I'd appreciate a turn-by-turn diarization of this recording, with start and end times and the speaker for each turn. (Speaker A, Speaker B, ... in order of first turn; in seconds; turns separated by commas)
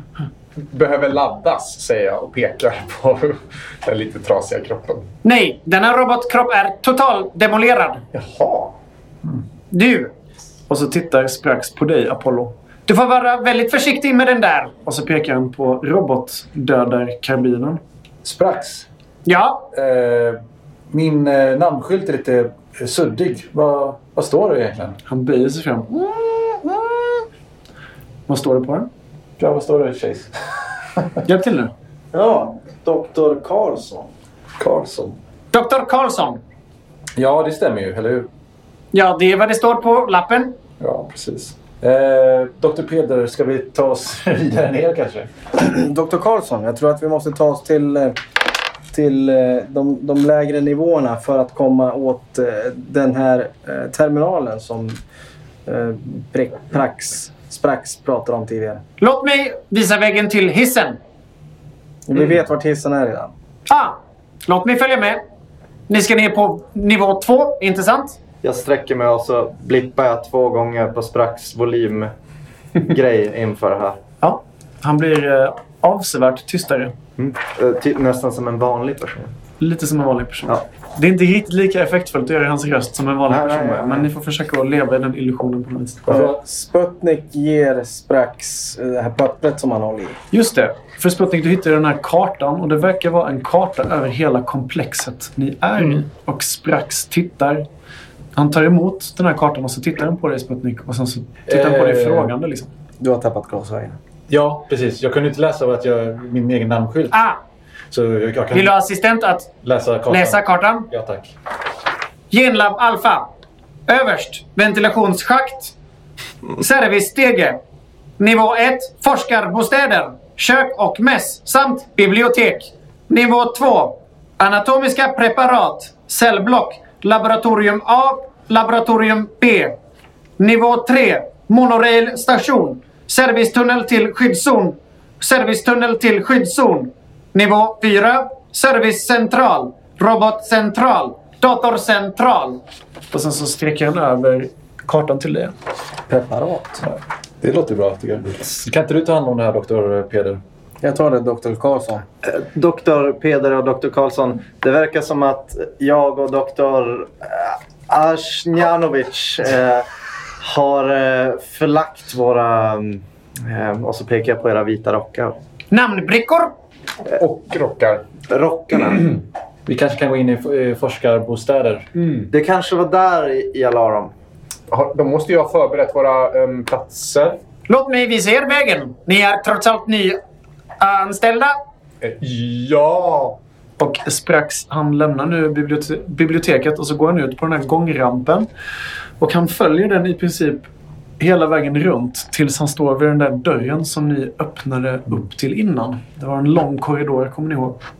Speaker A: 0.6-5.0, Speaker B: 5.2-8.0, Speaker A: 8.1-8.7, Speaker B: 9.7-10.1, Speaker C: 10.7-12.5, Speaker B: 12.9-14.7, Speaker C: 14.8-17.8, Speaker D: 18.2-18.9, Speaker B: 19.2-19.6, Speaker D: 19.7-20.4, Speaker D: 20.9-25.0, Speaker C: 25.1-26.1, Speaker C: 28.3-28.9, Speaker D: 29.4-30.3, Speaker C: 31.2-31.7, Speaker E: 32.1-34.1, Speaker D: 34.6-35.2, Speaker B: 35.5-36.4, Speaker D: 37.1-38.3, Speaker B: 38.9-40.5, Speaker D: 40.8-45.3, Speaker E: 45.6-48.2, Speaker E: 48.9-55.0, Speaker E: 55.6-58.8, Speaker B: 59.0-61.0, Speaker E: 62.1-63.3, Speaker B: 63.7-65.2, Speaker B: 65.9-68.2, Speaker F: 68.4-72.1, Speaker F: 72.8-74.0, Speaker C: 74.2-76.9, Speaker F: 77.2-79.3, Speaker C: 79.6-86.1, Speaker F: 83.3-84.1, Speaker E: 86.1-90.2, Speaker C: 90.3-97.7, Speaker C: 98.3-102.7, Speaker D: 101.5-102.2, Speaker E: 103.0-104.0, Speaker D: 104.3-107.2, Speaker B: 107.1-107.4, Speaker D: 107.9-108.7, Speaker B: 108.5-109.5, Speaker D: 109.6-111.3, Speaker B: 110.1-110.9, Speaker B: 112.3-113.2, Speaker B: 113.9-115.7, Speaker B: 116.6-117.6, Speaker B: 118.2-129.7, Speaker B: 130.4-142.6, Speaker C: 143.1-145.5, Speaker E: 146.1-146.8, Speaker D: 146.8-150.4, Speaker E: 150.8-152.0, Speaker F: 152.2-159.9, Speaker F: 160.4-165.3, Speaker B: 165.7-166.5, Speaker A: 167.1-168.0, Speaker F: 168.3-169.1, Speaker D: 169.7-171.9, Speaker A: 171.9-172.3, Speaker F: 172.3-174.1, Speaker A: 174.7-177.4, Speaker B: 177.7-180.2, Speaker B: 180.8-181.5, Speaker A: 182.0-183.4, Speaker C: 183.8-188.5, Speaker C: 189.2-190.7, Speaker C: 191.2-197.8